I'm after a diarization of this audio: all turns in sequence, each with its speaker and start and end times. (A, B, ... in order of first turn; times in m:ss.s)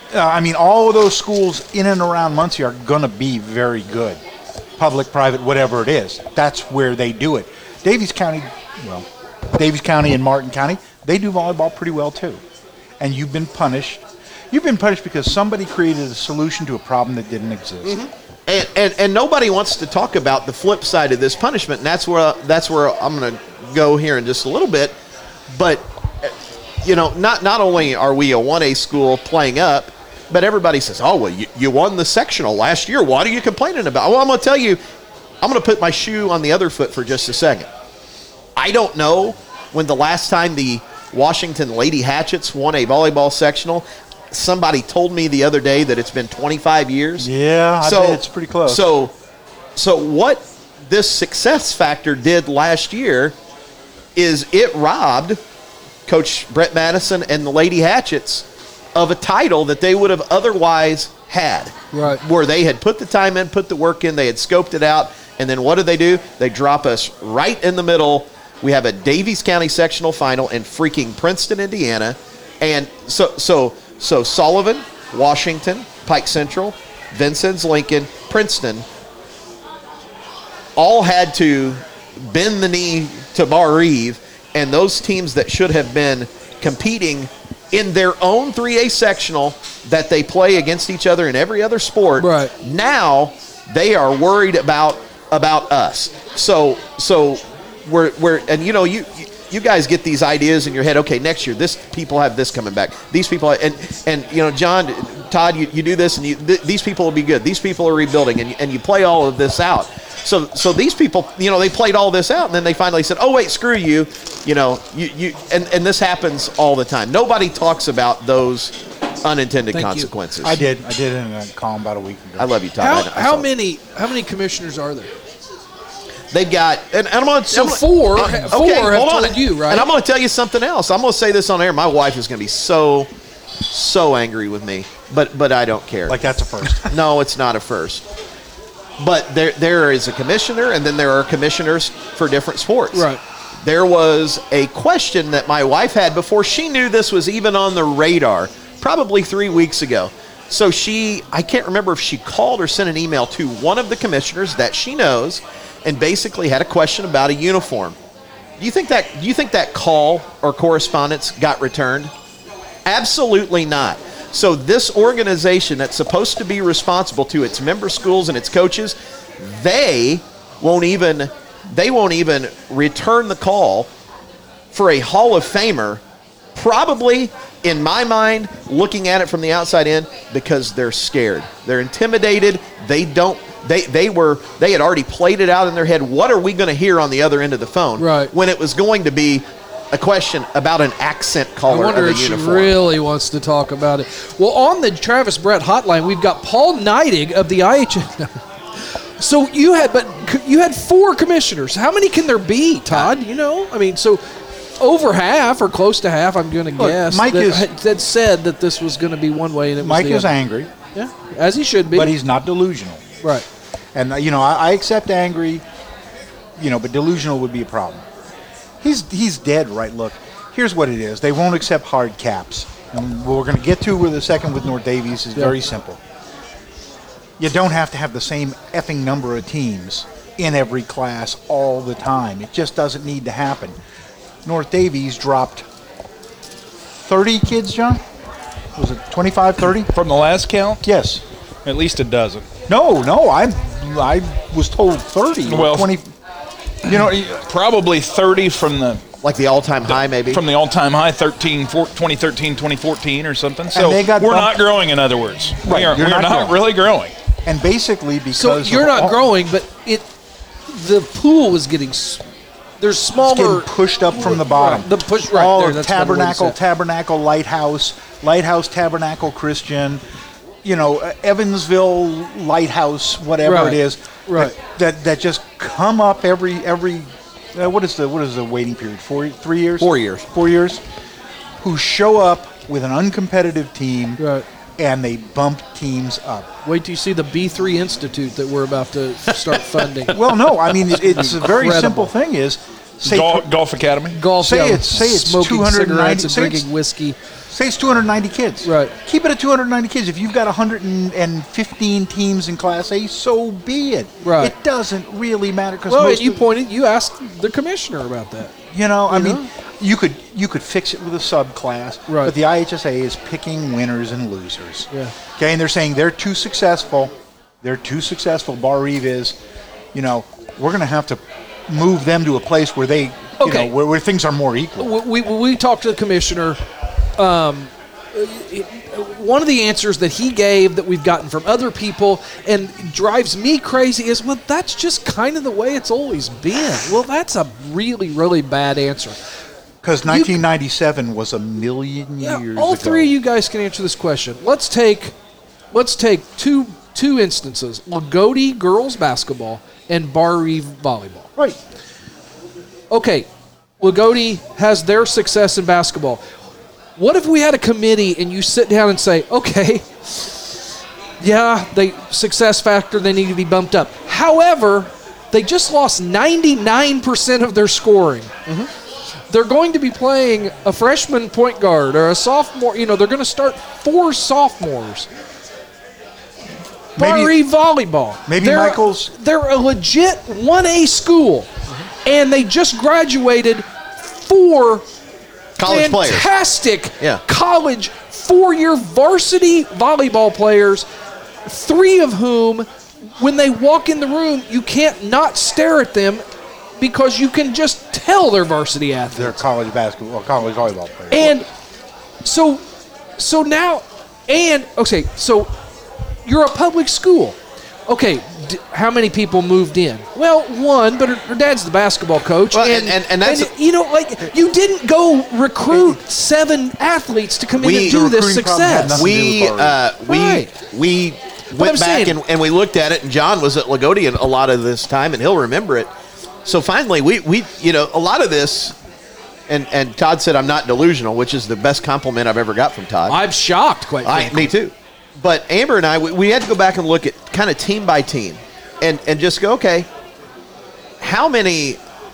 0:00.1-0:04.2 A
0:04.8-0:12.4 A
0:13.0-0:18.0 A
0:17.8-0:24.9 B
0:25.5-0:34.8 B
0:35.4-0:37.7 B
0:38.6-0:47.3 B
0:47.2-0:48.8 A
0:47.8-0:49.1 B
0:49.8-0:53.4 B
0:54.2-0:55.4 B
0:56.1-1:18.8 B
1:01.9-1:02.2 C
1:20.8-2:00.6 B
1:32.2-1:32.5 C
1:59.7-2:00.1 C
2:00.4-2:02.5 A
2:02.4-2:03.5 B
2:02.8-2:05.1 C
2:06.3-2:13.1 B
2:07.5-2:09.9 C
2:13.7-2:16.2 B
2:16.1-2:17.0 A
2:16.8-2:18.1 B
2:19.0-2:23.1 B
2:22.9-2:23.2 C
2:23.6-2:38.0 B
2:38.6-2:42.1 B
2:42.9-2:53.9 B
2:54.7-2:56.0 B
2:56.6-3:12.8 B
3:08.0-3:08.3 C
3:11.7-3:24.2 C
3:24.8-3:30.3 C
3:26.8-3:27.7 A
3:29.8-3:30.7 A
3:31.0-3:32.1 C
3:31.9-3:33.0 A
3:33.9-3:35.6 A
3:36.6-3:38.0 A
3:38.8-3:46.0 A
3:47.4-3:53.8 A
3:54.4-3:55.7 A
3:57.0-3:58.0 A
3:58.8-3:59.9 A
3:59.9-4:00.8 D
4:00.8-4:01.2 A
4:01.6-4:02.5 D
4:02.7-4:06.1 A
4:05.5-4:05.9 D
4:06.9-4:07.3 A
4:06.9-4:09.0 D
4:09.2-4:10.4 B
4:09.9-4:17.1 D
4:13.7-4:14.6 A
4:15.6-4:16.6 A
4:17.4-4:19.2 A
4:18.4-4:20.1 C
4:20.7-4:22.2 C
4:22.8-4:26.6 C
4:23.2-4:30.0 A
4:30.6-4:40.8 A
4:33.4-4:34.6 C
4:39.8-4:40.2 B
4:41.6-4:44.2 A
4:44.2-4:44.5 C
4:44.8-4:46.5 A
4:46.6-4:50.2 C
4:49.5-4:50.3 B
4:50.1-4:53.5 A
4:51.2-4:52.1 C
4:53.0-4:54.2 D
4:54.2-4:57.2 C
4:54.3-4:56.7 A
4:57.5-5:06.4 A
4:58.6-4:58.9 C
5:04.2-5:04.5 C
5:05.9-5:08.5 C
5:08.7-5:19.4 A
5:09.1-5:09.5 C
5:12.1-5:12.3 C
5:19.9-5:25.0 A
5:23.4-5:23.7 C
5:24.8-5:26.6 C
5:27.2-5:39.2 C
5:39.8-5:43.1 A
5:40.1-5:40.4 C
5:42.2-5:45.2 C
5:45.7-5:51.3 C
5:52.9-5:53.3 C
5:53.8-5:56.2 C
5:57.0-6:00.5 C
6:01.2-6:08.3 C
6:09.3-6:15.1 C
6:17.0-6:17.3 A
6:17.0-6:21.5 C
6:18.3-6:19.1 A
6:22.0-6:24.8 C
6:25.6-6:26.3 B
6:25.6-6:30.9 C
6:31.4-6:36.2 C
6:36.8-6:39.4 C
6:39.1-6:41.4 A
6:41.1-6:41.5 C
6:42.2-6:42.6 C
6:43.2-6:45.5 C
6:46.2-6:59.0 C
6:52.5-6:53.5 B
6:55.7-6:56.0 A
6:57.6-6:58.0 B
6:57.6-6:59.8 A
6:59.0-7:05.9 B
7:00.1-7:00.5 C
7:01.6-7:02.2 C
7:06.4-7:08.8 B
7:09.5-7:13.2 B
7:13.1-7:14.5 C
7:14.0-7:19.9 B
7:21.0-7:21.8 B